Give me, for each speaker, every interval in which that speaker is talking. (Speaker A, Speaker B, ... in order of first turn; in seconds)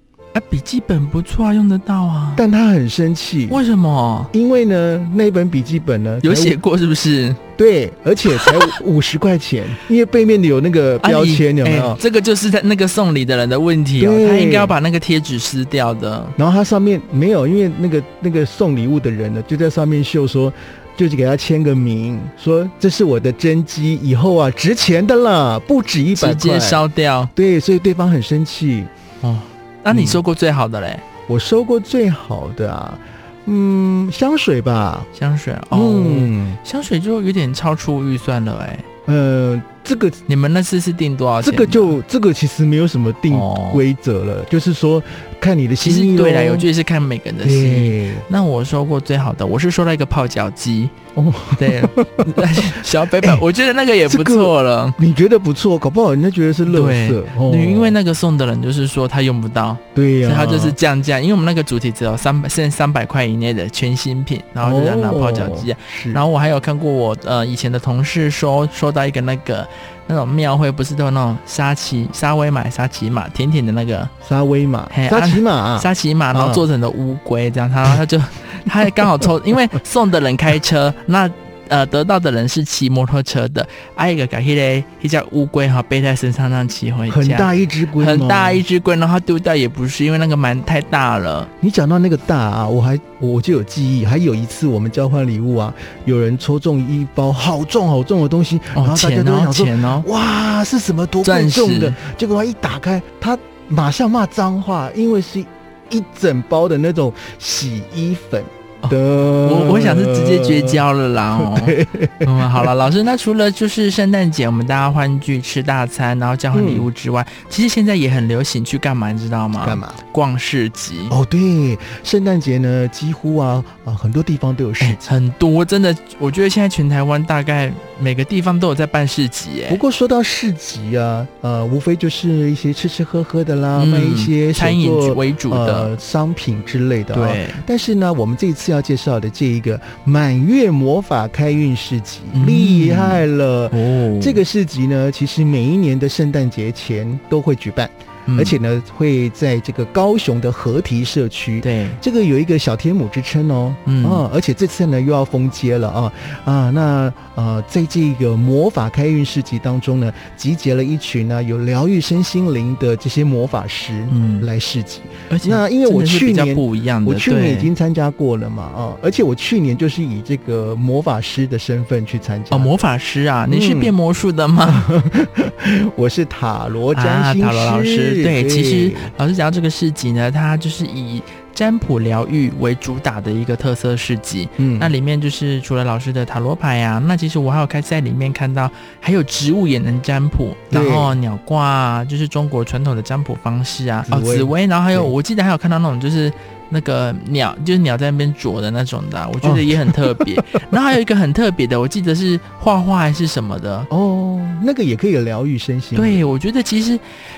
Speaker A: 0.3-2.4, 3.5-4.3, 6.2-7.4, 8.3-8.7, 11.0-16.4, 26.2-27.3, 29.2-31.1, 35.1-38.9, 40.3-42.0, 43.3-43.8, 45.8-50.9, 51.5-55.0, 56.7-74.1, 74.9-91.5, 98.8-100.1, 101.2-102.0, 108.8-121.2, 124.8-129.8, 133.8-135.9, 137.1-137.6, 142.3-144.4, 148.3-148.6, 151.6-152.0, 153.9-154.2, 164.1-164.5, 165.3-167.7, 172.5-174.9, 176.9-203.9, 205.9-207.0
Speaker B: 2.4-3.6, 4.3-6.6, 7.6-12.0, 14.0-14.8, 16.4-26.8, 27.4-28.9, 29.9-30.2, 31.3-35.1, 35.7-36.6, 39.1-40.2, 41.4-46.7, 47.4-48.3, 51.1-53.5, 54.1-58.0, 60.0-60.8, 64.6-66.2, 74.2-76.7, 87.1-88.6, 91.6-110.8, 111.4-112.7, 116.5-116.9, 119.6-120.0, 121.1-125.0, 129.7-172.7, 173.5-173.9, 174.7-179.1, 184.6-184.9, 190.7-191.2, 194.1-195.1, 199.4-200.6, 203.9-206.3